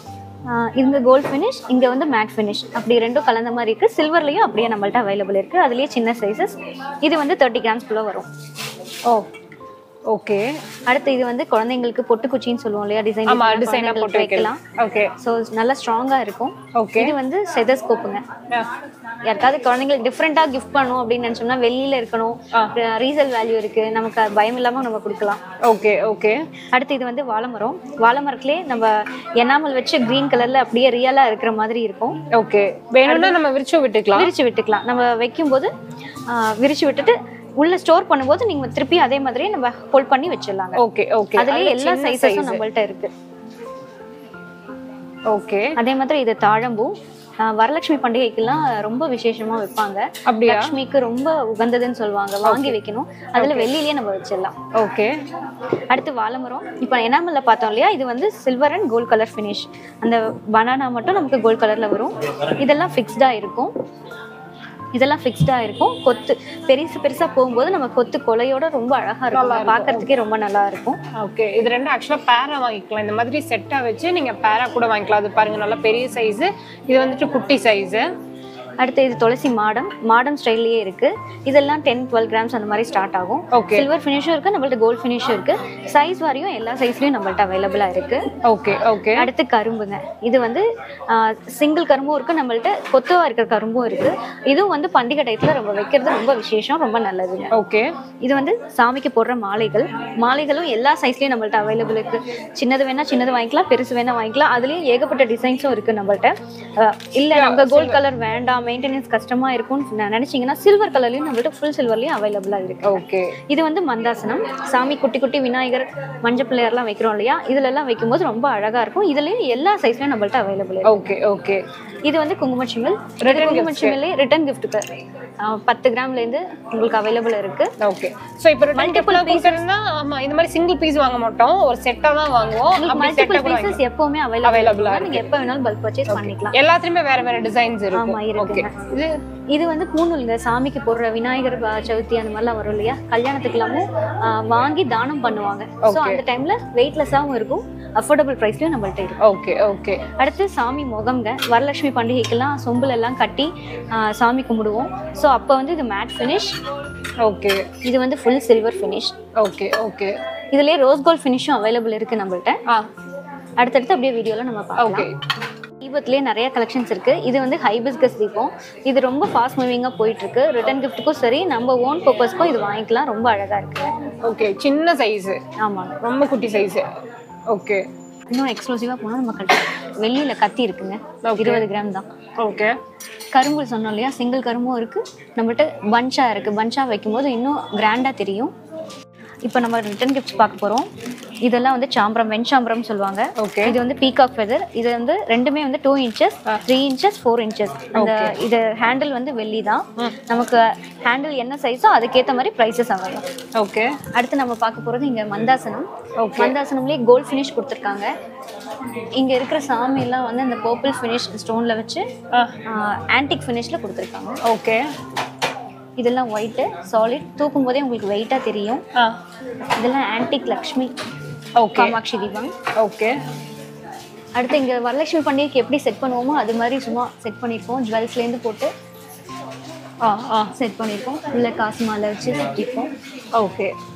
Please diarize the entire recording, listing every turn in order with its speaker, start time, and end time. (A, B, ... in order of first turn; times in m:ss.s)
0:00.5-0:08.3 A
0:09.0-0:09.3 B
0:10.1-0:10.5 B
0:10.9-0:14.6 A
0:13.3-0:15.1 B
0:15.2-0:18.2 A
0:16.7-0:17.1 B
0:19.2-0:25.4 A
0:25.6-0:26.5 B
0:26.7-0:32.2 A
0:32.3-0:34.3 B
0:33.1-0:33.4 A
0:34.1-0:35.7 A
0:36.3-0:40.8 A
0:40.8-0:42.6 B
0:41.4-0:43.1 A
0:45.3-0:45.8 B
0:45.8-0:54.5 A
0:50.3-0:50.7 B
0:52.4-0:52.8 B
0:53.4-0:53.7 B
0:54.7-0:55.1 B
0:55.9-1:03.7 A
1:05.0-1:11.0 A
1:09.3-1:10.1 B
1:11.1-1:18.0 B
1:18.8-1:28.2 A
1:23.5-1:23.9 B
1:28.4-1:29.3 B
1:29.2-1:37.6 A
1:37.5-1:37.9 B
1:38.2-2:01.1 A
1:47.3-1:48.0 B
1:52.8-1:53.4 B
2:00.8-2:01.6 B
2:02.0-2:04.9 A
2:03.2-2:04.0 B
2:05.4-2:07.7 A
2:07.8-2:13.8 B
2:08.7-2:09.6 A
2:12.8-2:16.6 A
2:14.4-2:15.3 B
2:16.1-2:19.2 B
2:17.9-2:18.7 A
2:19.5-2:29.2 A
2:25.8-2:26.2 B
2:29.2-2:30.0 B
2:30.2-2:36.6 A
2:37.2-2:37.7 B
2:37.8-2:39.2 A
2:39.4-2:40.2 B
2:40.5-2:42.6 A
2:43.6-2:45.1 A
2:44.8-2:45.1 B
2:45.8-2:53.9 A
2:54.2-2:55.4 B
2:55.6-2:56.0 A
2:56.0-2:56.9 B
2:57.5-2:57.9 B
2:58.3-3:02.1 A
3:01.2-3:01.6 B
3:02.4-3:02.8 B
3:03.3-3:08.5 A
3:09.4-3:10.9 A
3:11.4-3:23.3 A
3:13.4-3:13.8 B
3:18.0-3:18.4 B
3:23.5-3:24.0 B
3:24.1-3:28.1 A
3:26.2-3:26.6 B
3:29.1-3:32.0 A
3:32.6-3:34.4 A
3:34.4-3:34.8 B
3:36.0-3:38.8 A
3:39.8-3:40.9 A
3:41.6-3:42.0 B
3:41.7-3:42.5 A
3:42.8-3:43.2 B
3:44.4-3:48.7 A
3:50.0-3:50.5 B
3:50.5-3:52.9 A
3:53.3-3:53.7 B